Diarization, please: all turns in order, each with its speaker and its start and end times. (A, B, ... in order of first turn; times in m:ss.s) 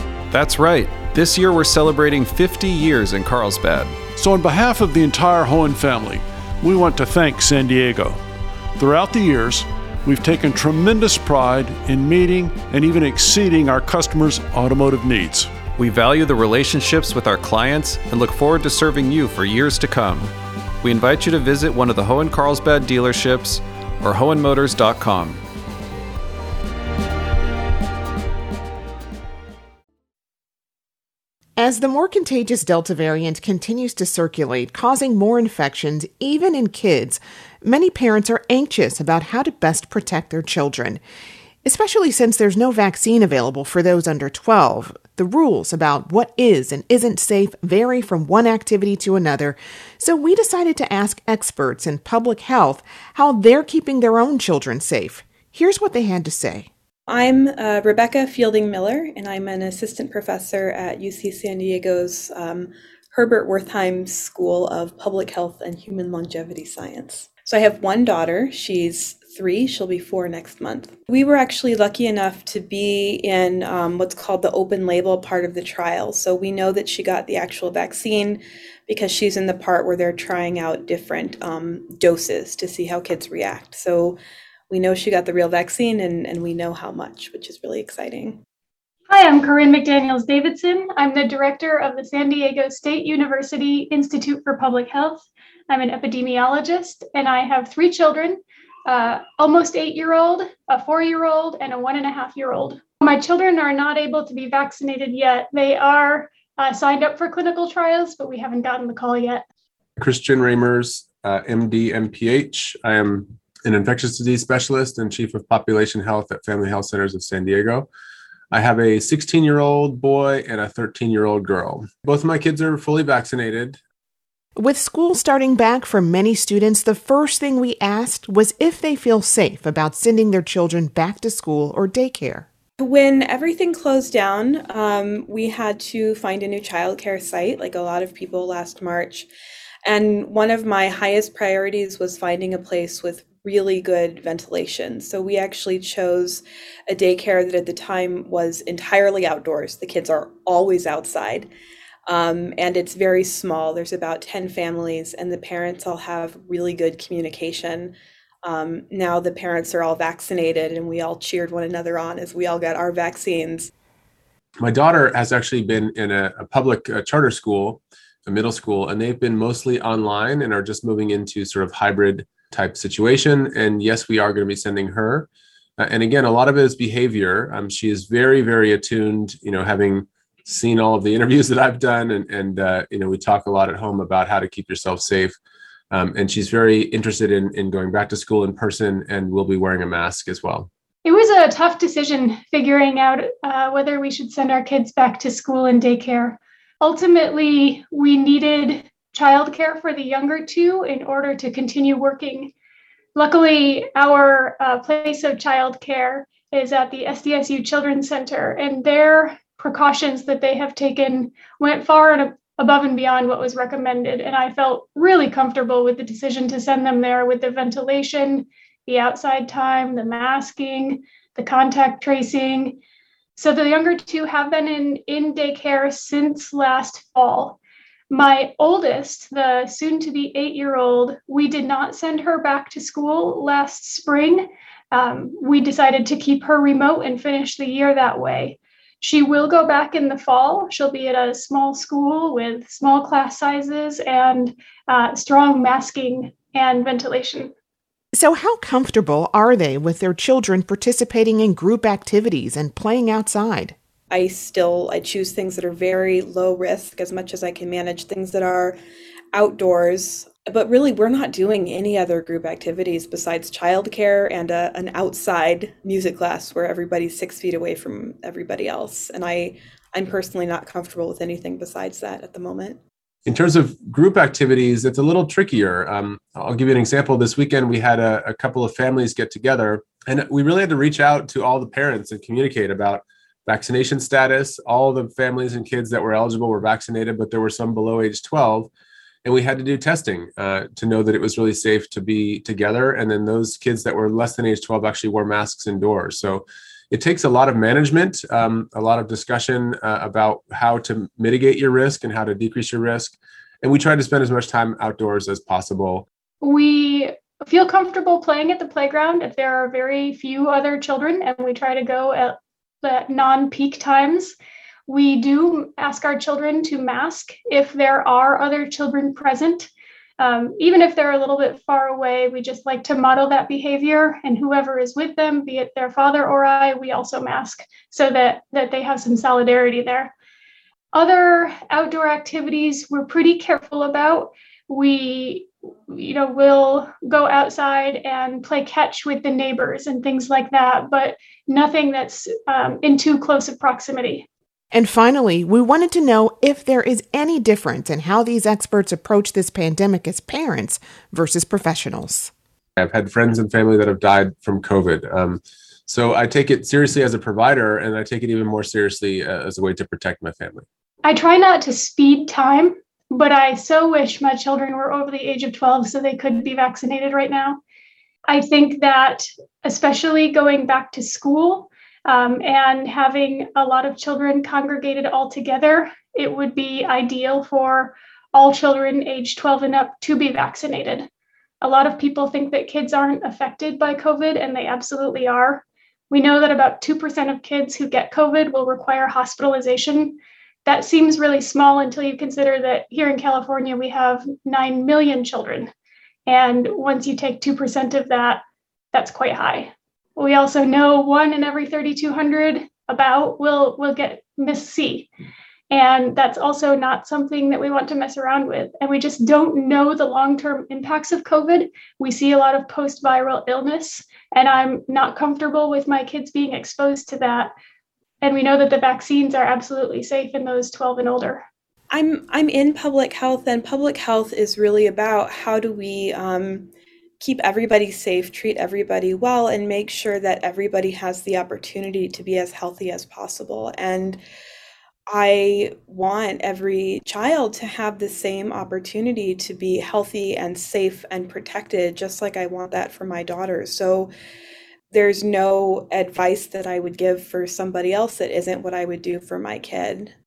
0:00.3-0:04.0 A
0:04.2-0:08.2 B
0:08.8-0:15.5 B
0:15.8-0:25.4 A
0:31.6-0:41.0 C
0:41.6-0:56.7 C
0:57.1-1:24.2 D
1:24.7-1:28.4 D
1:29.1-1:49.4 E
1:50.0-1:57.9 F
1:58.5-2:03.8 F
2:04.6-2:12.5 C
2:12.8-2:19.3 D
2:19.8-2:31.5 D
2:32.1-2:43.7 D
2:44.6-3:05.4 F
3:05.9-3:10.7 F
3:11.0-3:22.5 E
3:23.2-3:42.8 E
3:43.4-3:47.6 E
3:48.1-4:07.5 E
4:08.1-4:13.8 C
4:14.1-4:18.8 D
4:19.3-4:32.8 D
4:33.3-4:48.7 F
4:49.2-5:06.1 F
5:06.4-5:14.4 E
5:14.9-5:30.1 E
5:30.9-5:44.3 E
5:44.7-5:52.3 C
5:52.8-6:00.7 F
6:01.0-6:07.6 E
6:08.3-6:21.1 E
6:21.6-6:35.7 E
6:36.3-6:38.4 E
6:38.9-6:45.1 E
6:45.7-6:57.5 E
6:58.2-7:01.4 E
7:01.9-7:14.2 D
7:15.1-7:24.1 D
7:24.9-7:30.1 D